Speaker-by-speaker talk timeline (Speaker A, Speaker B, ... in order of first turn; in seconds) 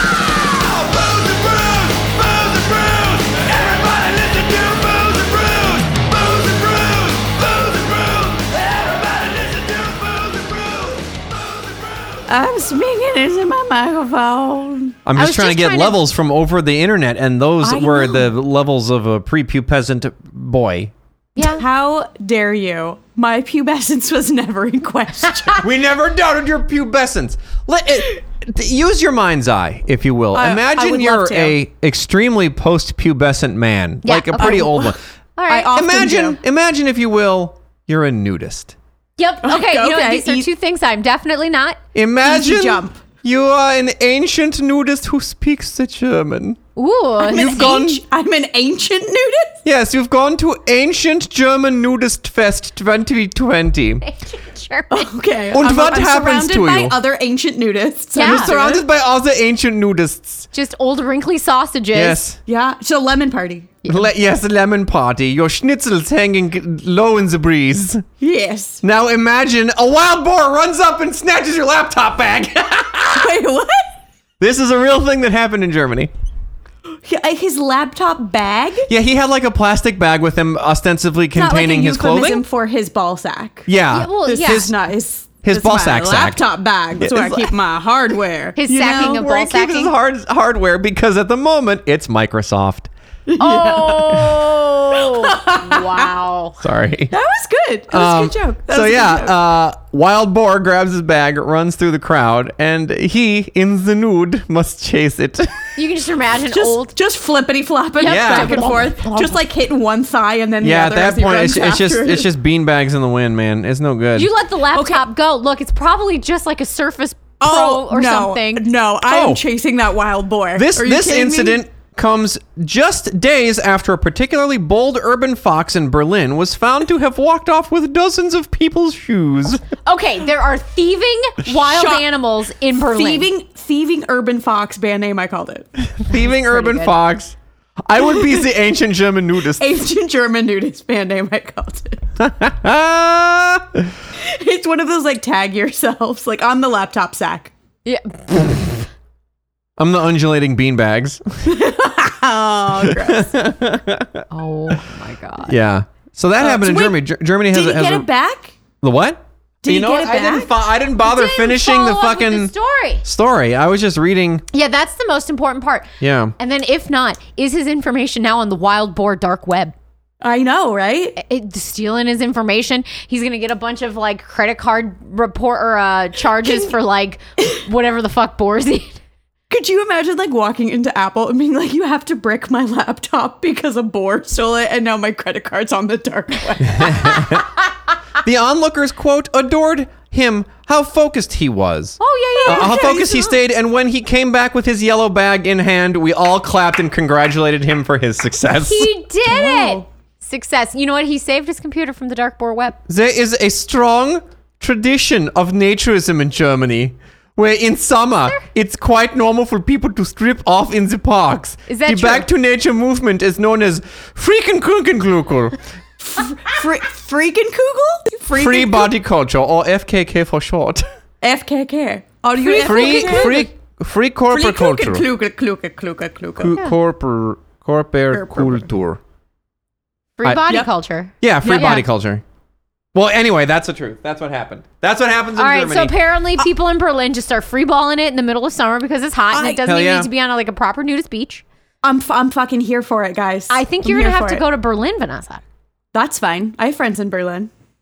Speaker A: 0.6-7.4, 15.1-20.9, 25.6-35.0, 35.7-38.8, 42.0-46.6, 47.2-48.0, 49.6-54.0, 55.5-57.0, 58.2-60.5, 61.9-62.4, 63.9-68.0, 68.8-73.4, 74.4-76.1, 78.9-82.4, 83.7-84.7, 85.4-86.4, 87.0-87.5, 88.7-92.9, 96.6-97.1, 97.9-105.7, 108.0-108.7, 110.6-114.3, 119.1-119.4, 120.5-129.6, 136.0-139.7, 142.2-143.9, 149.8-151.5, 152.8-154.2, 155.5-158.1, 158.8-162.5, 163.0-164.4, 166.0-166.3, 186.7-187.5, 188.2-198.9, 202.9-215.6, 218.3-220.8, 222.6-225.0, 226.4-229.0, 231.2-232.2, 232.9-235.9, 239.7-240.1
Speaker B: 12.3-15.0, 17.6-18.3, 21.4-25.6, 30.3-31.6, 34.4-34.9, 35.5-36.4, 39.4-40.5, 42.2-43.0, 47.2-49.6, 54.9-58.8, 62.5-63.8, 68.2-68.8, 73.1-73.9, 76.9-78.9, 81.3-83.7, 84.3-89.2, 93.3-96.1, 97.1-99.3, 106.5-112.3, 114.7-115.1, 117.4-121.6, 131.5-132.1, 132.8-135.7, 139.6-142.0, 144.2-147.5, 151.4-153.4, 156.4-158.6, 159.6-160.6, 170.2-171.2, 176.4-176.7, 179.5-187.3, 192.4-193.4, 199.3-199.8, 216.0-218.9, 221.2-223.5, 224.3-226.6, 228.1-228.7, 231.4-231.8, 239.3-239.7, 241.8-244.4, 245.9-247.5
Speaker C: 15.2-16.0, 21.4-21.6, 34.0-34.8, 35.4-35.7, 39.2-41.8, 46.8-47.8, 54.0-55.1, 58.1-58.5, 60.5-62.2, 83.9-84.7, 88.6-89.9, 93.4-96.6, 105.8-106.9, 108.0-109.4, 114.2-118.7, 129.8-133.3, 136.1-137.0, 147.8-148.6, 154.3-155.6, 161.0-163.0, 164.5-169.7, 171.2-179.0, 192.0-192.9, 198.6-202.8, 211.7-212.3, 222.4-223.4, 230.2-231.8, 235.4-241.4, 243.5-245.4